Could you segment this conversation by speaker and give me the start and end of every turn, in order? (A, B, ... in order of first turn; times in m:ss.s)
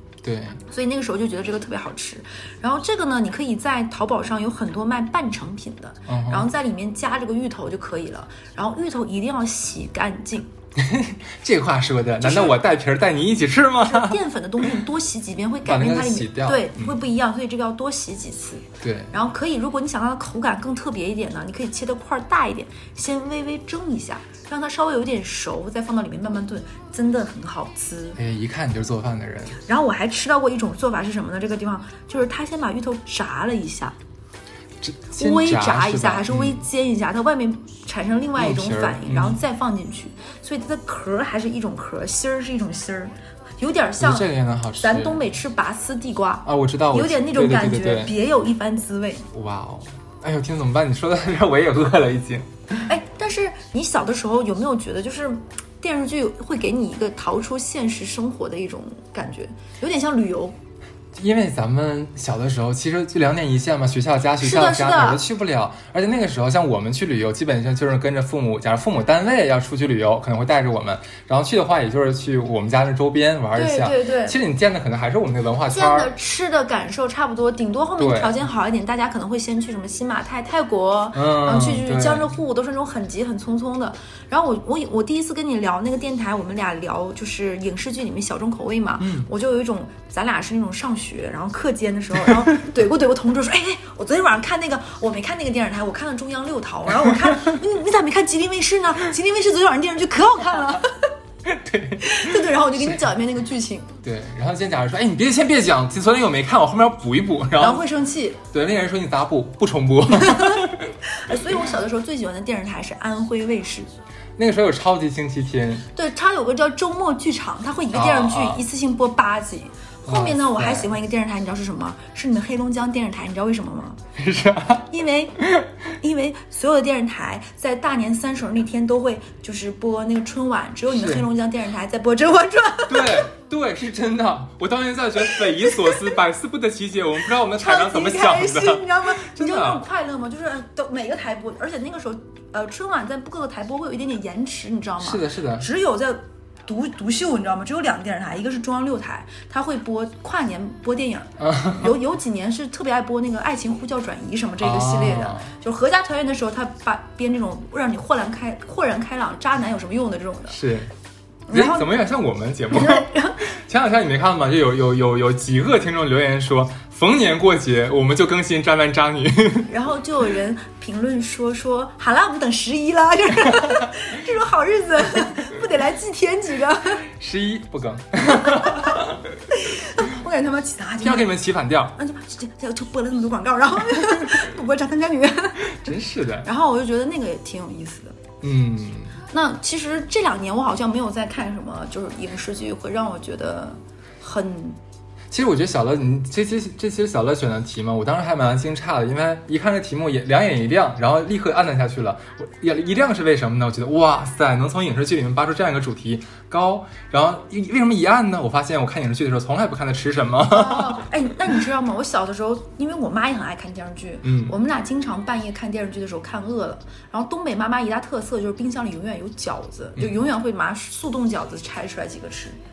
0:00.2-0:00.6 A
0:00.7-0:10.5 B
0:06.1-0:06.5 A
0:10.8-0:14.8 A
0:12.2-0:12.6 B
0:13.8-0:28.2 B
0:15.6-0:17.0 A
0:18.8-0:19.1 A
0:28.2-0:29.6 A
0:29.6-0:34.0 B
0:34.8-0:36.6 A
0:35.2-0:44.3 B
0:38.4-0:39.4 A
0:44.0-0:45.2 A
0:44.8-0:49.3 B
0:46.4-0:48.1 A
0:49.3-0:52.5 A
0:52.8-1:00.6 B
1:01.1-1:16.1 A
1:04.4-1:05.2 B
1:13.6-1:14.4 B
1:15.7-1:41.1 B
1:18.0-1:18.3 A
1:21.1-1:22.3 A
1:29.0-1:29.3 A
1:41.4-1:43.0 A
1:42.0-1:43.9 B
1:44.0-1:47.8 A
1:47.6-1:48.4 B
1:48.5-1:50.9 A
1:50.2-1:53.9 B
1:54.4-1:55.9 A
1:55.9-2:04.0 B
1:57.9-1:58.6 A
2:00.0-2:00.9 A
2:04.2-2:04.9 A
2:04.9-2:05.4 B
2:05.4-2:05.7 A
2:06.0-2:13.3 B
2:10.9-2:11.3 A
2:12.9-2:19.8 A
2:15.3-2:16.0 B
2:17.5-2:40.6 B
2:25.0-2:25.7 A
2:31.4-2:31.9 A
2:34.6-2:35.5 A
2:40.5-2:40.9 A
2:41.5-2:41.9 B
2:41.5-2:49.7 A
2:42.7-2:43.5 B
2:49.7-2:57.0 B
2:57.0-2:59.4 A
2:58.3-3:01.4 B
3:01.0-3:02.0 A
3:02.0-3:05.8 B
3:05.6-3:06.5 A
3:06.4-3:08.2 B
3:08.4-3:09.2 A
3:09.3-3:14.8 B
3:15.3-3:31.0 A
3:30.5-3:42.6 B
3:34.2-3:34.6 A
3:40.0-3:40.2 A